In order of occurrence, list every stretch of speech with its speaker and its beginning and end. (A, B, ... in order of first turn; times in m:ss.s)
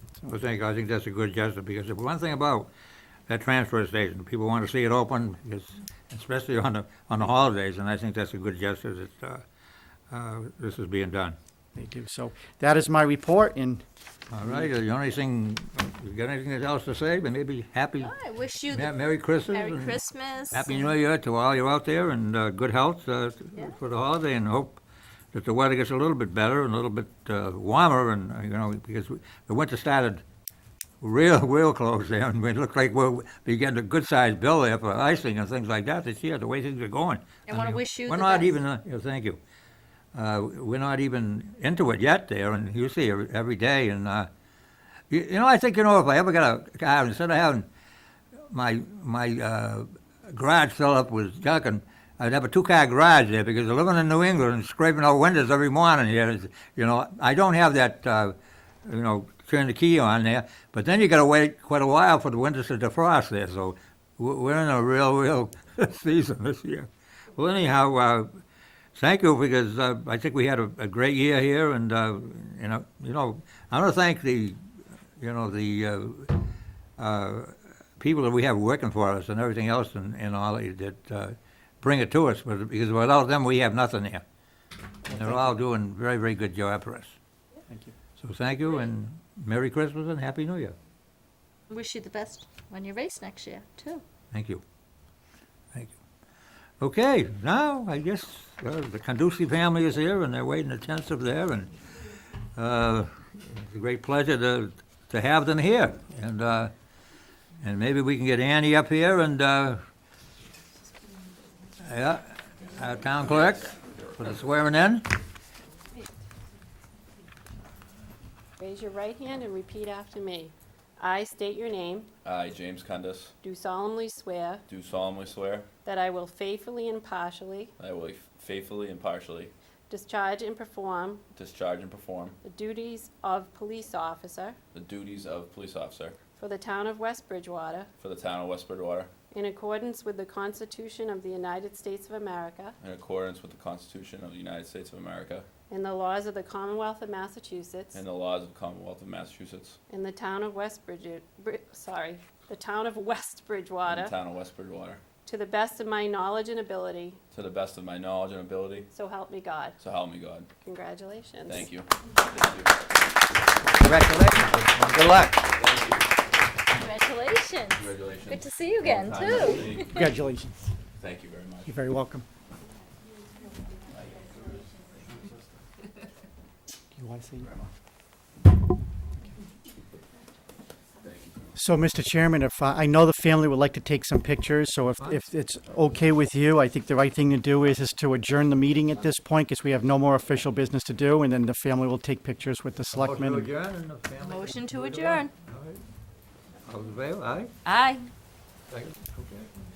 0:00.3-0:02.7 A
0:03.3-0:09.4 A
0:10.1-0:11.4 A
0:11.7-0:13.8 B
0:14.3-0:18.1 A
0:18.0-0:19.0 C
0:18.7-0:24.8 A
0:19.5-0:20.8 C
0:25.3-0:30.2 A
0:31.0-0:39.4 A
0:37.5-0:38.6 C
0:40.1-0:44.3 A
0:45.1-0:47.7 A
0:48.5-1:08.4 A
1:08.9-1:14.6 A
1:15.2-1:24.2 A
1:25.1-1:27.2 A
1:25.1-1:25.6 B
1:27.7-1:27.9 B
1:28.2-1:30.8 A
1:31.7-1:34.0 C
1:34.3-1:34.6 A
1:36.8-1:41.7 A
1:42.6-1:46.7 A
1:47.6-1:49.8 A
1:51.8-1:55.1 A
1:53.2-1:54.0 D
1:58.6-2:02.1 E
2:02.2-2:03.3 D
2:03.4-2:04.6 E
2:04.7-2:05.7 D
2:05.8-2:07.7 E
2:07.8-2:09.5 D
2:09.9-2:11.2 E
2:11.3-2:12.4 D
2:12.4-2:14.6 E
2:14.7-2:16.2 D
2:16.4-2:17.9 E
2:18.0-2:19.1 D
2:19.3-2:22.8 E
2:22.8-2:25.5 D
2:25.7-2:28.0 E
2:27.9-2:29.8 D
2:29.9-2:34.1 E
2:33.8-2:35.0 D
2:35.2-2:37.2 E
2:37.3-2:38.9 D
2:38.9-2:39.8 E
2:39.8-2:40.5 D
2:40.6-2:41.6 E
2:41.5-2:42.7 D
2:43.7-2:45.5 A
2:45.5-2:46.1 D
2:46.7-2:50.0 C
2:47.7-2:50.1 D
2:49.8-2:50.7 B
2:51.0-2:51.7 D
2:51.6-2:52.2 B
2:54.1-2:55.4 D
2:56.9-2:57.5 B
2:57.4-2:57.7 D
3:01.0-3:01.5 D
3:01.5-3:13.5 B
3:12.9-3:15.8 A
3:14.2-3:15.3 C
3:16.6-3:17.5 A
3:17.6-3:18.0 C
3:18.7-3:19.5 A